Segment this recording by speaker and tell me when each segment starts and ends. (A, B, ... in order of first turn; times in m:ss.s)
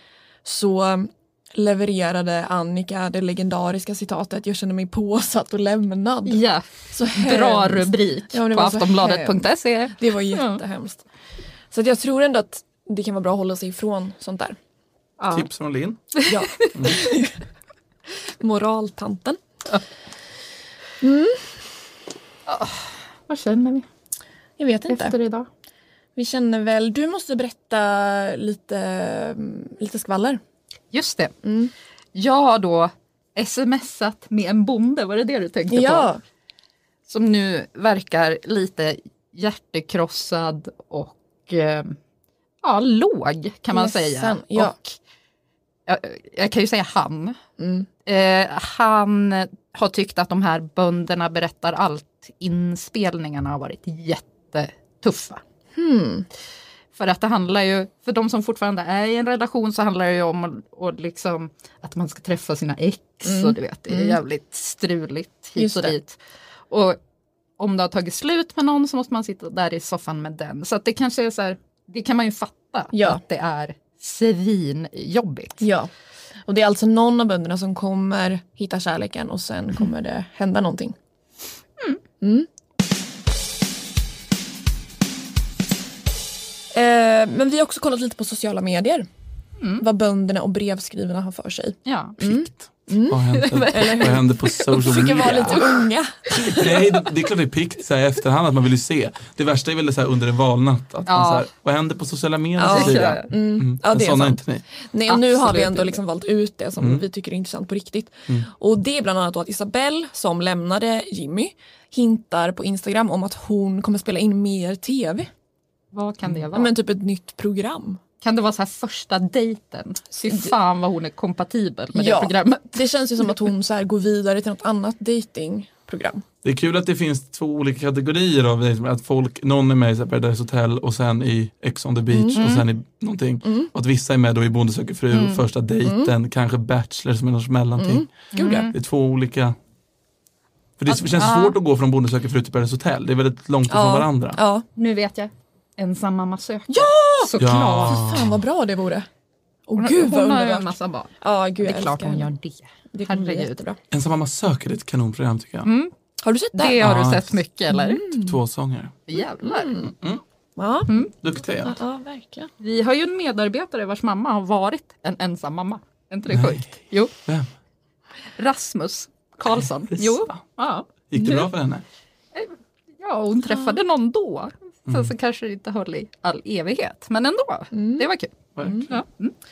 0:00.4-0:09.4 A
0:06.2-0:10.6 B
0:10.0-0:11.0 A
0:11.7-0:14.6 A
0:15.2-0:15.4 B
0:15.3-0:16.0 C
0:16.2-0:16.7 B
0:16.2-0:17.3 A
0:18.4-0:19.4 A
0:21.0-0:21.5 A
0:22.5-0:23.8 B
0:24.6-0:25.1 A
0:24.9-0:25.5 B
0:26.2-0:30.4 A
0:30.9-0:31.3 B
0:31.4-0:31.7 A
0:32.1-0:36.1 B
0:35.7-0:36.2 A
0:37.1-0:42.0 B
0:42.6-0:44.9 B
0:43.7-0:44.8 A
0:45.9-0:47.4 B
0:47.6-0:47.9 A
0:48.0-0:55.4 B
0:55.7-0:56.3 A
0:57.0-1:06.2 B
1:03.2-1:04.2 A
1:05.6-1:05.9 A
1:06.7-1:07.0 B
1:07.6-1:15.6 B
1:12.9-1:13.2 A
1:15.6-1:15.9 A
1:16.4-1:21.0 A
1:22.2-1:22.5 A
1:26.7-1:29.1 A
1:29.6-1:29.8 B
1:29.8-1:33.2 A
1:31.8-1:32.2 B
1:32.2-1:35.6 C
1:33.3-1:35.7 B
1:33.7-1:36.8 A
1:36.4-1:44.6 C
1:41.1-1:41.5 B
1:42.6-1:55.3 A
1:42.6-1:43.3 B
1:45.1-1:46.0 B
1:46.8-1:47.0 C
1:55.9-1:56.7 B
1:56.5-1:58.0 A
1:58.2-2:03.3 B
2:00.2-2:00.5 A
2:01.9-2:06.2 A
2:06.4-2:18.1 C
2:12.1-2:12.6 A
2:12.4-2:12.6 B
2:13.4-2:13.7 A
2:15.1-2:15.4 B
2:15.8-2:16.1 A
2:17.8-2:18.7 A
2:18.3-2:18.7 B
2:18.7-2:19.6 C
2:20.8-2:24.4 C
2:20.9-2:21.6 B
2:23.7-2:24.6 A
2:24.8-2:28.1 B
2:26.7-2:27.3 A
2:27.4-2:28.4 C
2:27.8-2:29.1 A
2:29.7-2:32.3 A
2:29.8-2:33.6 B
2:32.9-2:33.8 A
2:33.9-2:35.7 C
2:35.6-2:35.9 B
2:36.2-2:36.8 A
2:36.5-2:38.2 B
2:36.8-2:37.4 C
2:37.7-2:38.4 A
2:38.2-2:39.0 C
2:39.1-2:39.8 B
2:39.2-2:39.9 A
2:39.9-2:40.2 C
2:40.6-2:40.9 A
2:41.2-2:41.8 C
2:41.6-2:42.5 A
2:42.6-2:47.1 B
2:46.3-2:46.7 C
2:48.4-2:51.5 B
2:49.6-2:50.4 C
2:51.1-2:51.8 C
2:52.3-2:58.3 B
2:53.5-2:53.8 A
2:54.9-2:55.1 C
2:57.7-2:58.1 A
2:58.6-2:58.9 C
2:58.6-2:58.9 A
2:58.9-2:59.3 B